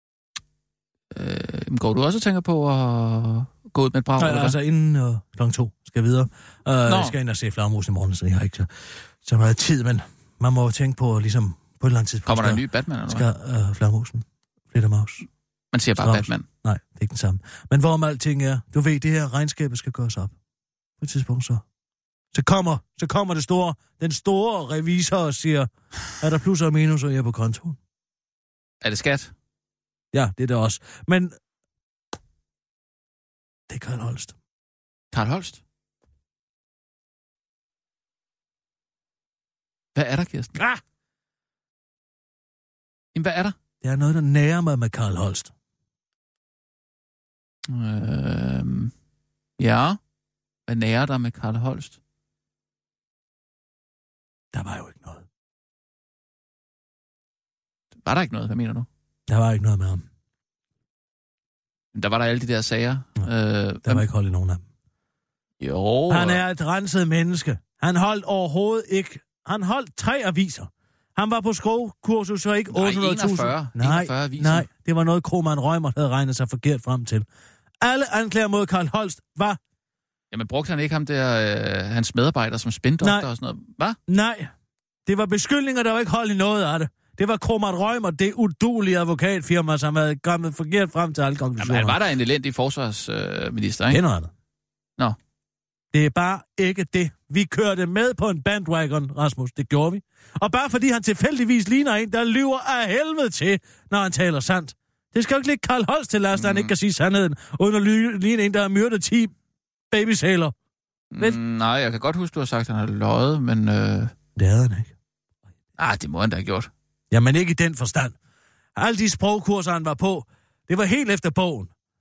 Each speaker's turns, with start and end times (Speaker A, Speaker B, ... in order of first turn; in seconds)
Speaker A: 1.1-4.6, 6.9-7.1, 12.2-13.3, 15.7-16.4, 28.8-29.3, 35.1-35.6, 39.9-40.5, 43.1-43.5, 47.7-48.9, 49.6-50.0, 50.7-52.0, 58.0-58.9, 61.9-64.0, 65.6-66.4, 72.7-74.7, 80.3-84.0, 91.6-94.0, 106.3-106.7, 111.1-114.1, 115.8-116.7
Speaker B: 4.2-8.7, 9.2-15.2, 16.0-20.3, 21.0-21.6, 22.3-27.8, 30.1-31.3, 33.7-34.3, 40.5-40.8, 43.8-45.5, 54.5-55.2, 59.3-60.0, 63.8-64.6, 66.1-77.2, 77.8-79.6, 83.0-83.3, 84.1-84.5, 85.0-92.0, 93.9-94.3, 95.9-109.3, 109.9-110.5, 114.3-114.9, 117.1-118.2, 118.8-121.7